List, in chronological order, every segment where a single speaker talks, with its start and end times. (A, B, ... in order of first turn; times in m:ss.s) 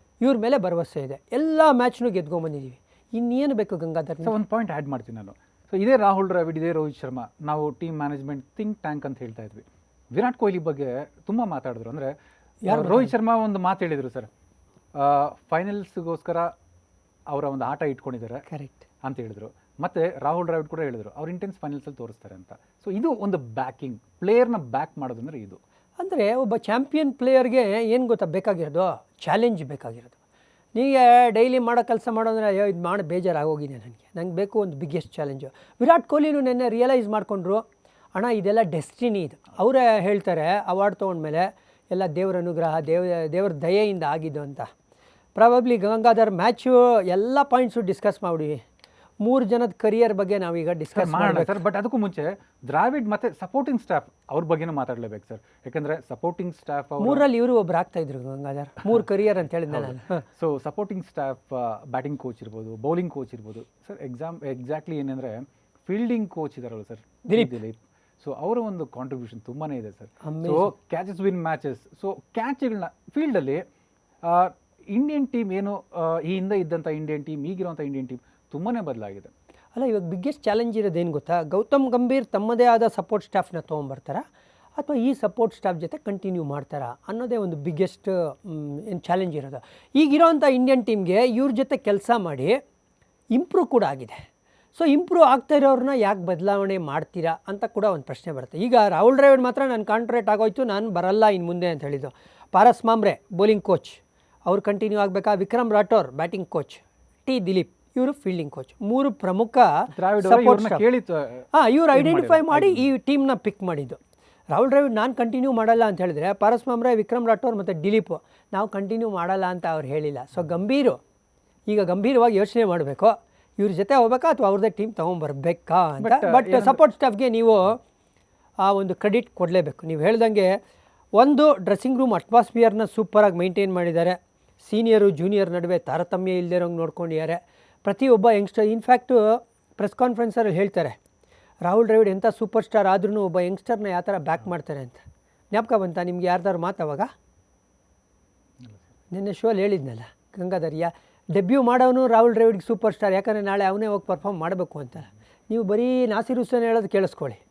0:00.2-0:04.4 A
0:04.2-0:12.1 B
0:12.6-0:13.1 A
0:12.7-0:14.3 B
0:15.0-0:16.5 B
0:17.3-0:18.4 B
0:18.5-0:18.8 A
0:19.0-0:25.6 B
0:26.0-0:30.2 A
0:30.8-0:44.7 A
0:45.4-0:48.6 A
0:49.2-0:51.6 A
0:50.9-0:57.2 B
0:57.0-1:00.2 A
0:59.7-1:13.6 B
1:07.3-1:07.6 A
1:10.2-1:10.7 A
1:14.2-1:19.3 B
1:19.8-1:24.2 A
1:24.8-1:32.6 A
1:33.3-1:34.2 A
1:34.8-1:50.8 A
1:49.9-1:52.9 B
1:51.5-1:54.0 A
1:54.5-2:01.0 A
2:01.7-2:07.8 A
2:06.0-2:06.8 B
2:08.6-2:10.6 A
2:11.2-2:21.0 A
2:21.6-2:27.1 A
2:29.1-2:37.4 A